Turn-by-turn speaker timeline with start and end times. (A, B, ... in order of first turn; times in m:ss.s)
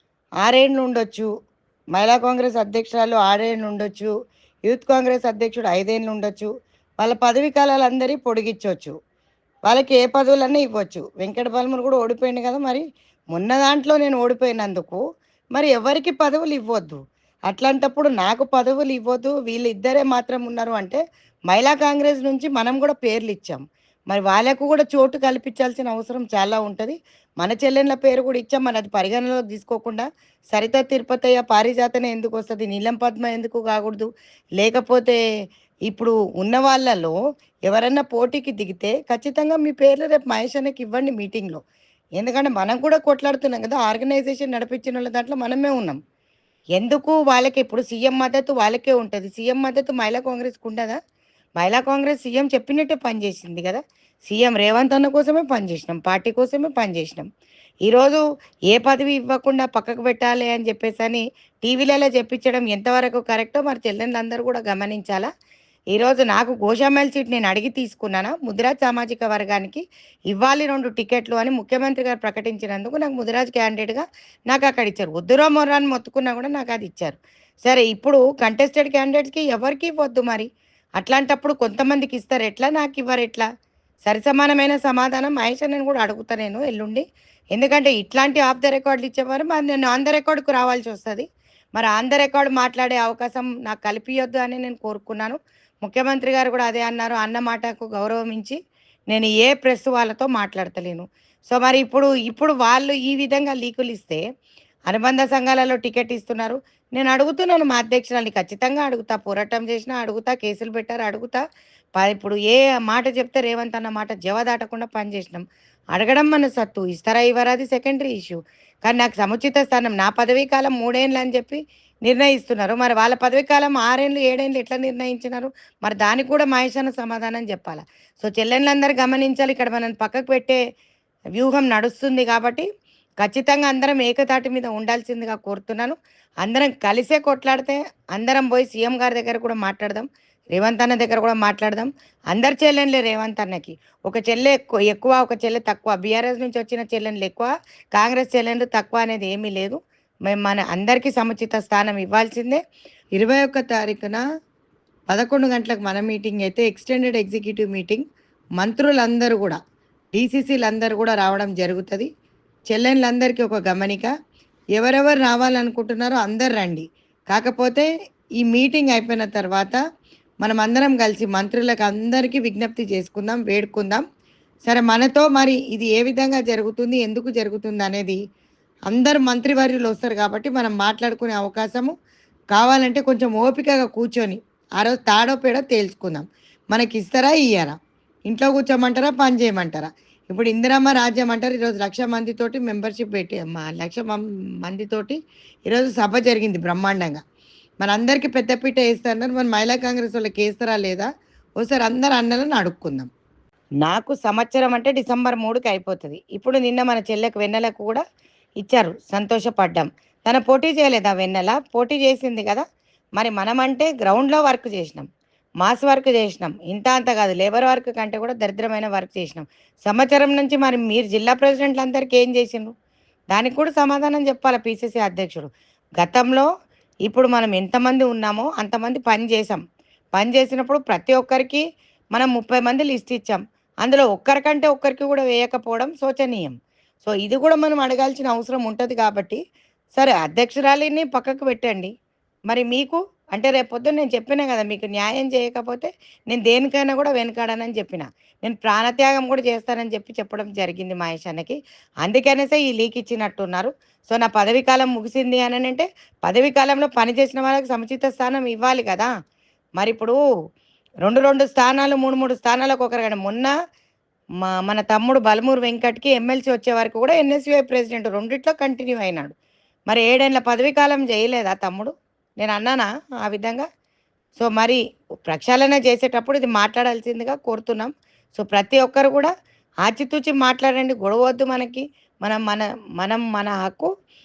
0:00.4-0:01.3 A
0:01.9-0:04.1 A
0:04.6-0:08.9 A
0:09.7-0:15.0 A
0:15.6-0:35.2 A
0:35.9-0:37.2 A
0:37.7-0:41.6 A
0:42.2-0:46.0 A
0:46.8-0:51.0 A
0:51.6-0:57.3 A
0:57.8-1:05.3 A
1:05.9-1:20.5 A
1:21.0-1:23.4 A
1:24.0-1:27.0 A
1:27.5-1:38.6 A
1:39.1-1:44.2 A
1:44.9-1:51.4 A
1:52.0-2:10.6 A
2:11.4-2:12.6 A
2:13.2-2:32.6 A
2:33.2-2:34.2 A
2:35.1-2:38.0 A
2:38.6-2:39.6 A
2:40.1-2:42.1 A
2:42.7-2:44.1 A
2:44.8-2:47.9 A
2:48.4-2:49.8 A
2:50.4-2:54.0 A
2:54.6-2:58.2 A
2:58.9-3:01.9 A
3:02.5-3:07.8 A
3:08.3-3:17.2 A
3:17.8-3:21.1 A
3:21.6-3:23.1 A
3:23.8-3:28.0 A
3:28.6-3:32.6 A
3:33.2-3:35.1 A
3:35.6-3:42.7 A
3:43.3-3:46.5 A
3:47.1-3:49.6 A
3:50.2-3:51.6 A
3:52.1-3:59.4 A
4:00.0-4:01.9 A
4:02.5-4:19.1 A
4:19.8-4:20.2 A
4:21.0-4:23.5 A
4:24.4-4:29.3 A
4:29.9-4:33.7 A
4:34.4-4:39.3 A
4:39.8-4:43.9 A